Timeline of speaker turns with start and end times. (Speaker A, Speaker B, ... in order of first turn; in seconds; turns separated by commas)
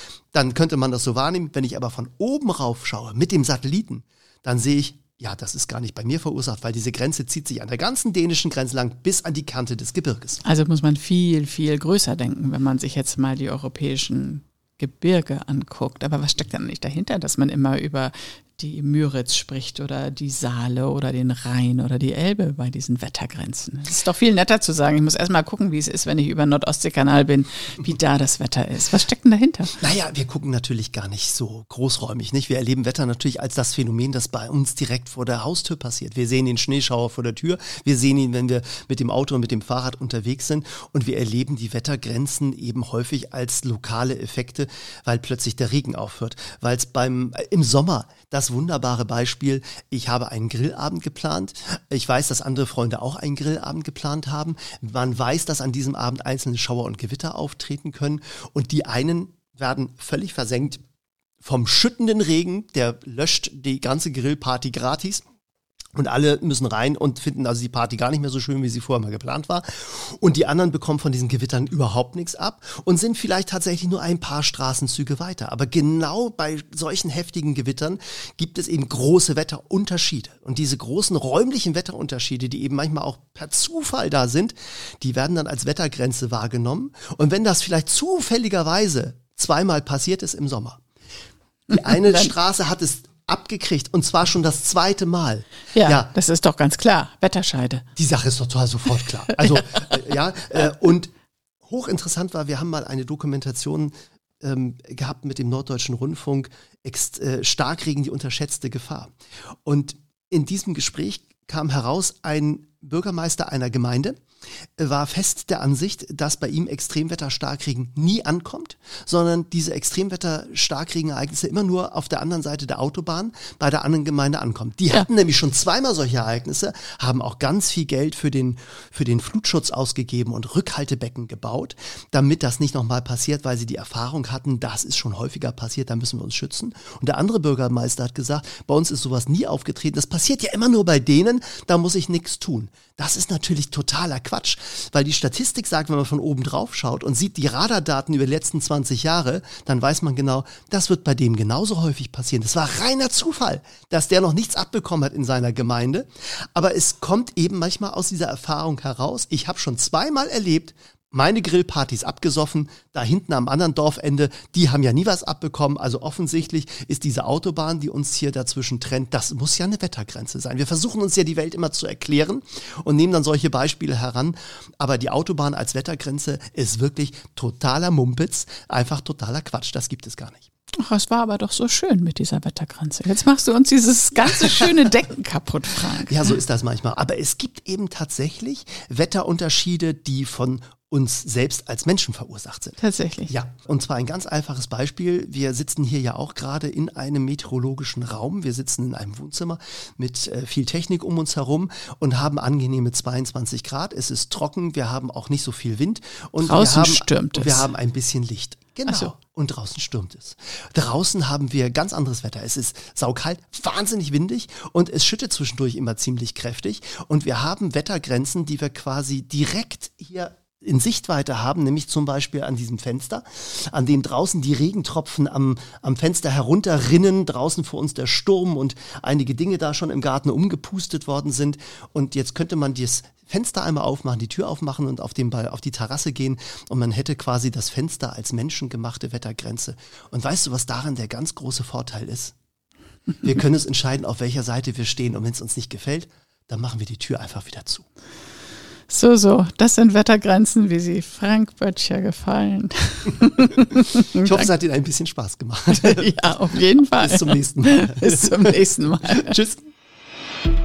Speaker A: 0.3-10.4, Speaker B: 10.4-29.8, Speaker A: 29.8-60.8, Speaker A: 61.4-65.2, Speaker A: 66.0-90.8, Speaker A: 91.7-96.1, Speaker B: 91.7-92.3, Speaker B: 95.7-97.8, Speaker A: 98.0-101.1, Speaker A: 101.6-109.1, Speaker A: 109.6-114.2, Speaker A: 114.8-180.5, Speaker B: 180.8-186.3, Speaker A: 186.0-242.3, Speaker B: 192.8-193.3, Speaker B: 206.4-207.7, Speaker B: 208.9-209.1, Speaker A: 243.2-247.8, Speaker B: 248.9-254.5, Speaker A: 254.1-259.6, Speaker B: 255.7-259.4